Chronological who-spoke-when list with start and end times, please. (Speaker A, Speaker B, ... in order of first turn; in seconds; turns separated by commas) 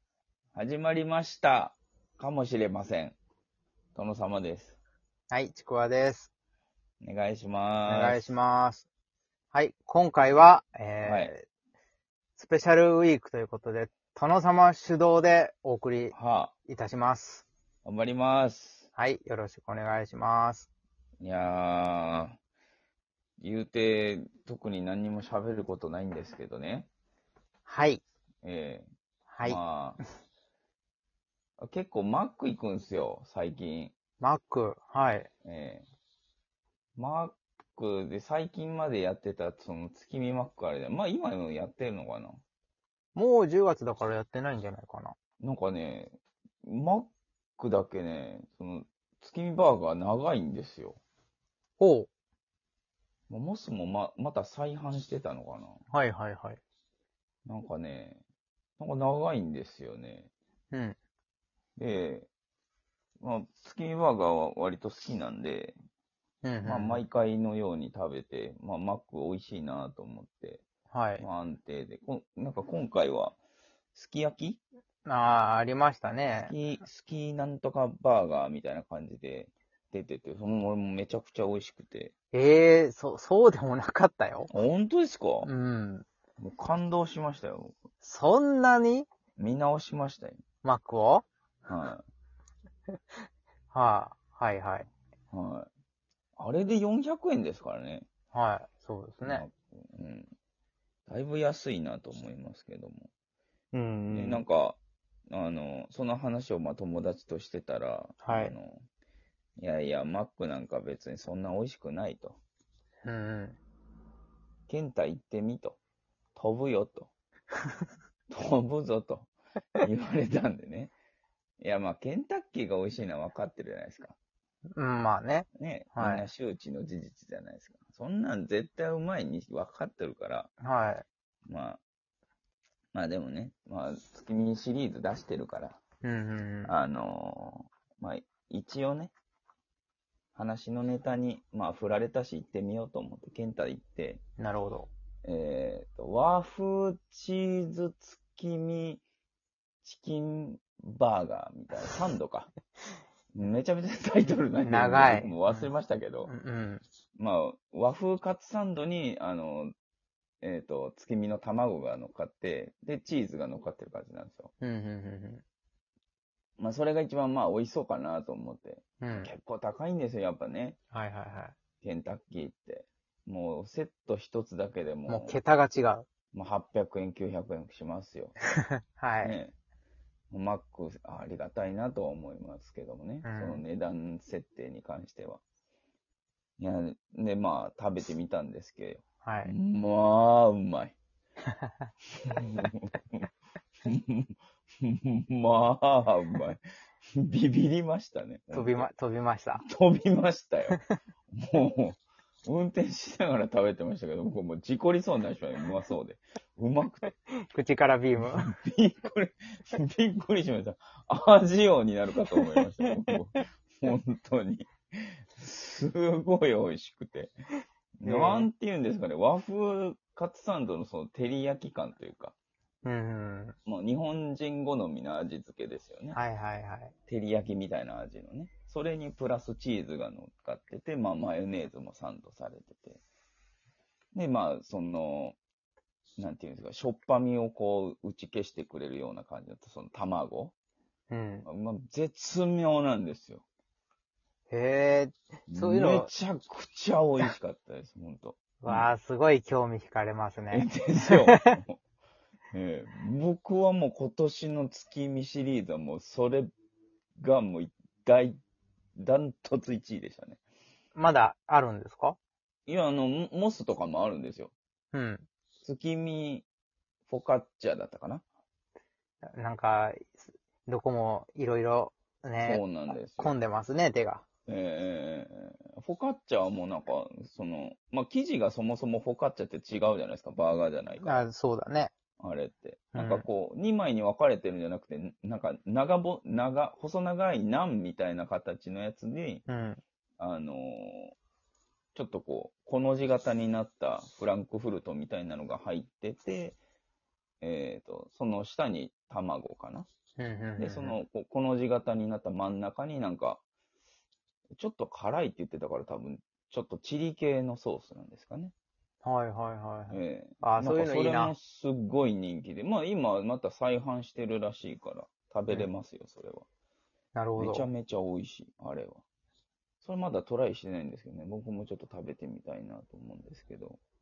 Speaker A: 0.5-3.2, Speaker A: 4.0-4.8, Speaker B: 5.3-6.3, Speaker A: 7.0-8.3, Speaker B: 7.9-8.9, Speaker B: 9.5-11.4, Speaker A: 11.0-11.3, Speaker B: 12.4-16.1, Speaker A: 16.1-16.5, Speaker B: 16.7-17.4, Speaker A: 17.9-18.9, Speaker B: 19.0-20.7, Speaker A: 21.2-22.4, Speaker A: 23.4-26.9, Speaker B: 27.7-28.0, Speaker A: 28.4-28.9, Speaker B: 29.3-29.6, Speaker A: 29.4-30.0, Speaker A: 31.6-33.9, Speaker B: 34.2-35.3, Speaker A: 35.5-35.9, Speaker A: 37.0-42.4, Speaker B: 43.1-45.1, Speaker A: 45.4-51.0, Speaker B: 51.8-52.1, Speaker A: 53.3-55.8, Speaker B: 55.9-56.6, Speaker A: 57.5-58.2, Speaker A: 58.8-60.3, Speaker A: 61.8-62.3, Speaker A: 63.2-65.8, Speaker B: 66.4-67.0, Speaker A: 66.6-70.6, Speaker B: 70.9-71.2, Speaker A: 71.2-73.4, Speaker A: 73.9-74.6, Speaker B: 75.1-76.5, Speaker A: 76.4-82.1, Speaker B: 82.3-84.5, Speaker A: 84.5-85.5, Speaker B: 85.4-86.0, Speaker A: 86.4-87.8, Speaker B: 88.0-89.1, Speaker A: 89.4-90.4, Speaker B: 90.6-91.2, Speaker A: 91.7-92.0, Speaker B: 93.7-94.9, Speaker A: 95.3-95.7, Speaker A: 96.4-98.1, Speaker B: 98.3-99.5, Speaker A: 99.2-100.3, Speaker A: 101.1-103.1, Speaker B: 103.7-104.4, Speaker A: 104.1-108.8, Speaker B: 108.2-108.5, Speaker A: 109.6-112.4, Speaker B: 113.0-113.6, Speaker A: 114.7-115.8, Speaker A: 116.3-117.1, Speaker A: 118.3-120.9, Speaker A: 121.6-124.2, Speaker B: 124.8-126.3, Speaker A: 125.6-130.5, Speaker B: 130.6-131.1, Speaker A: 131.5-131.8, Speaker A: 132.9-135.8, Speaker B: 136.0-136.7, Speaker A: 136.7-139.1, Speaker A: 140.3-144.2, Speaker B: 144.4-144.9, Speaker A: 145.2-149.0, Speaker A: 149.8-152.5, Speaker A: 153.3-156.3, Speaker B: 154.6-155.7, Speaker B: 156.3-156.8, Speaker A: 157.2-159.7, Speaker A: 160.4-164.5, Speaker B: 164.6-165.4, Speaker A: 166.6-170.8, Speaker B: 169.0-169.3, Speaker B: 170.9-171.6, Speaker A: 171.8-175.4, Speaker B: 175.1-176.1, Speaker A: 176.3-178.4, Speaker B: 178.9-179.4, Speaker A: 179.2-179.5, Speaker A: 180.3-185.4, Speaker B: 183.2-183.6, Speaker A: 186.6-191.0, Speaker B: 189.2-189.5, Speaker A: 192.2-193.3, Speaker A: 193.9-198.9, Speaker B: 198.5-199.6, Speaker A: 199.6-200.8, Speaker A: 201.3-207.1, Speaker B: 207.4-208.5, Speaker A: 208.2-217.3, Speaker B: 212.4-212.9, Speaker A: 218.0-222.3, Speaker B: 218.0-218.5, Speaker B: 222.8-223.6, Speaker A: 223.7-226.2, Speaker B: 226.1-226.9, Speaker A: 227.1-233.0, Speaker A: 234.1-235.4, Speaker A: 236.2-240.5, Speaker B: 241.1-241.5, Speaker A: 241.4-243.4, Speaker B: 244.5-246.1, Speaker A: 245.5-248.9, Speaker B: 248.6-251.6, Speaker A: 250.5-251.8, Speaker A: 252.5-256.5, Speaker A: 257.2-258.4, Speaker A: 259.0-260.4, Speaker B: 260.9-262.2, Speaker A: 262.7-264.5, Speaker B: 264.9-265.2, Speaker A: 265.6-266.5, Speaker A: 267.1-268.2, Speaker B: 269.2-274.2, Speaker A: 272.4-273.4, Speaker A: 274.5-281.1, Speaker B: 281.0-281.9, Speaker A: 282.2-289.4, Speaker B: 282.9-283.2, Speaker B: 289.5-289.8, Speaker A: 290.2-291.1, Speaker A: 291.9-296.6, Speaker A: 297.4-299.9, Speaker B: 300.2-301.0, Speaker A: 300.6-303.4, Speaker A: 304.6-308.5, Speaker B: 309.0-311.3, Speaker A: 309.9-316.5, Speaker B: 317.1-317.7, Speaker A: 317.4-319.0, Speaker A: 319.8-323.8